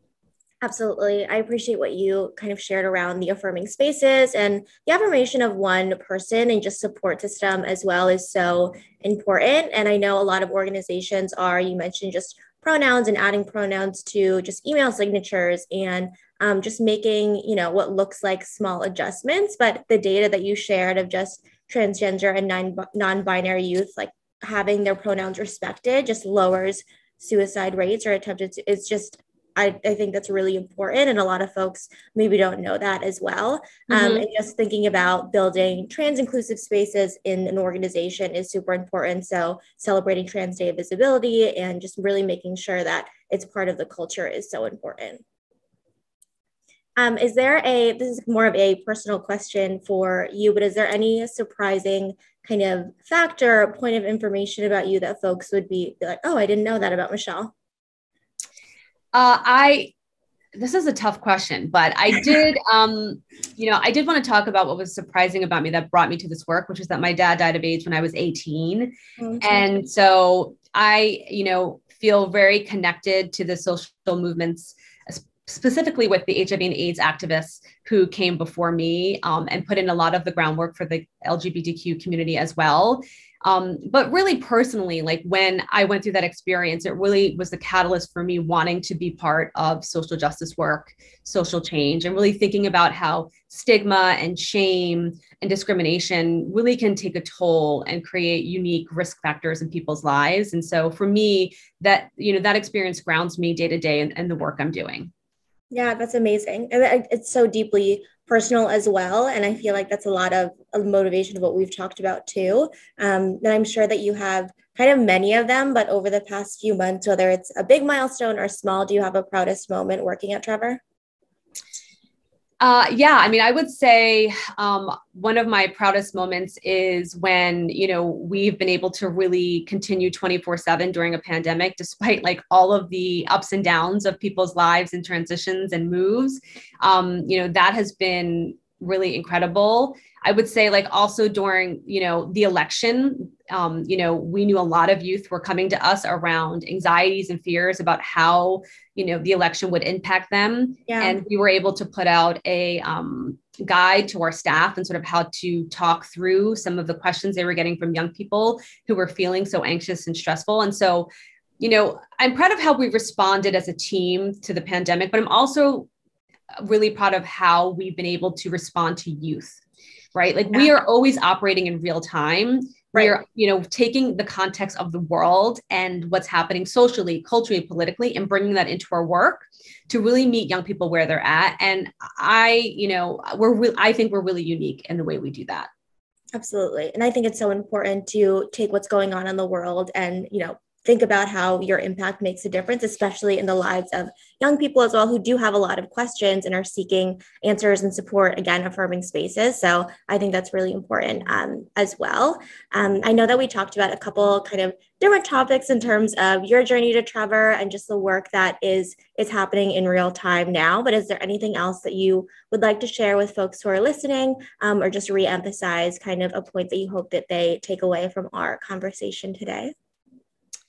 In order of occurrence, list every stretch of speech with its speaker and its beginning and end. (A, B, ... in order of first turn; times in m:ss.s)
0:00.6-0:45.2 A
0:33.9-0:34.2 B
0:47.0-0:57.5 A
0:59.1-0:59.9 B
1:00.6-1:45.1 B
1:09.2-1:09.7 A
1:45.7-2:00.8 A
2:02.6-2:41.1 B
2:30.9-2:31.2 A
2:41.6-2:45.9 B
2:46.6-2:49.6 B
2:50.1-3:05.7 B
3:06.3-3:39.7 A